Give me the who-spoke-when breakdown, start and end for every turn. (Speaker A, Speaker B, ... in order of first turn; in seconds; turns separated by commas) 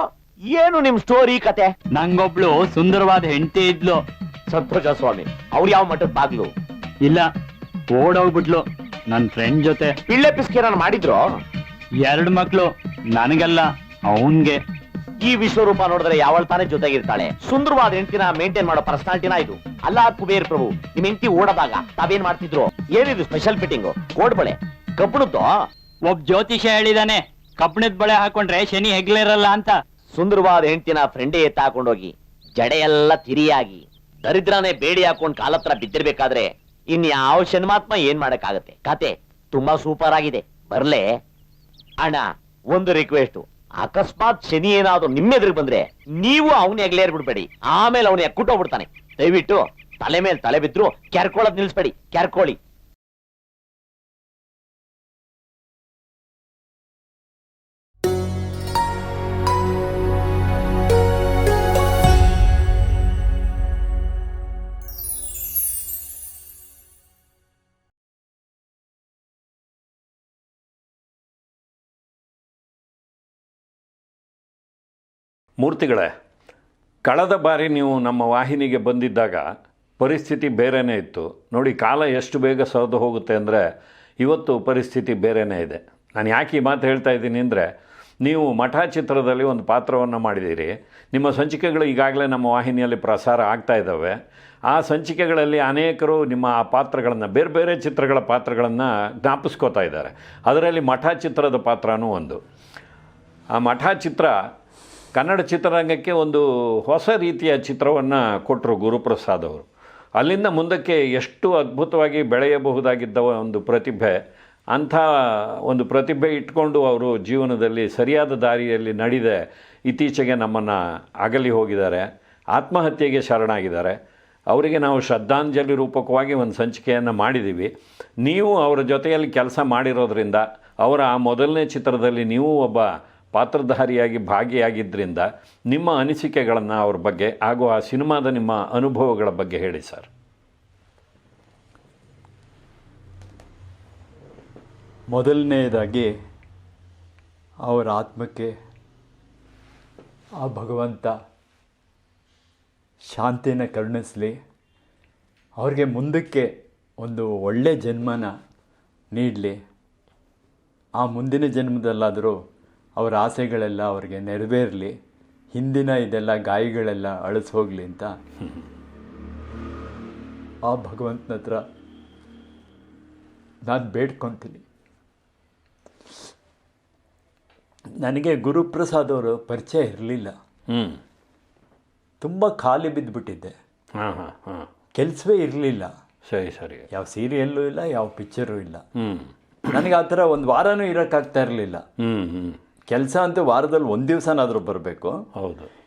Speaker A: 0.5-1.7, Speaker B: 1.9-4.0, Speaker A: 4.5-6.5, Speaker B: 7.0-7.3, Speaker B: 7.9-10.0, Speaker A: 10.1-11.2, Speaker B: 12.0-14.6, Speaker A: 15.2-25.5, Speaker B: 26.0-29.8, Speaker A: 30.1-41.2, Speaker A: 42.0-52.6, Speaker C: 75.6-76.1, Speaker C: 77.0-79.5, Speaker C: 80.0-83.6, Speaker C: 84.2-102.4, Speaker C: 103.5-104.4, Speaker C: 105.1-114.2, Speaker C: 114.7-140.1, Speaker D: 145.1-146.1, Speaker D: 147.6-148.6, Speaker D: 150.4-151.2, Speaker D: 153.1-154.4, Speaker D: 155.6-158.3, Speaker D: 159.1-159.6, Speaker D: 161.0-162.4, Speaker D: 163.0-165.0, Speaker D: 165.5-168.2, Speaker D: 170.7-171.6, Speaker D: 173.7-174.6, Speaker D: 178.0-180.3, Speaker C: 180.7-181.0, Speaker D: 182.2-183.6, Speaker C: 184.0-184.7, Speaker D: 185.0-185.9, Speaker C: 186.3-186.9, Speaker D: 186.9-188.8, Speaker C: 188.9-189.3, Speaker D: 189.7-191.8, Speaker C: 192.0-192.6, Speaker D: 192.9-195.2, Speaker C: 195.4-195.7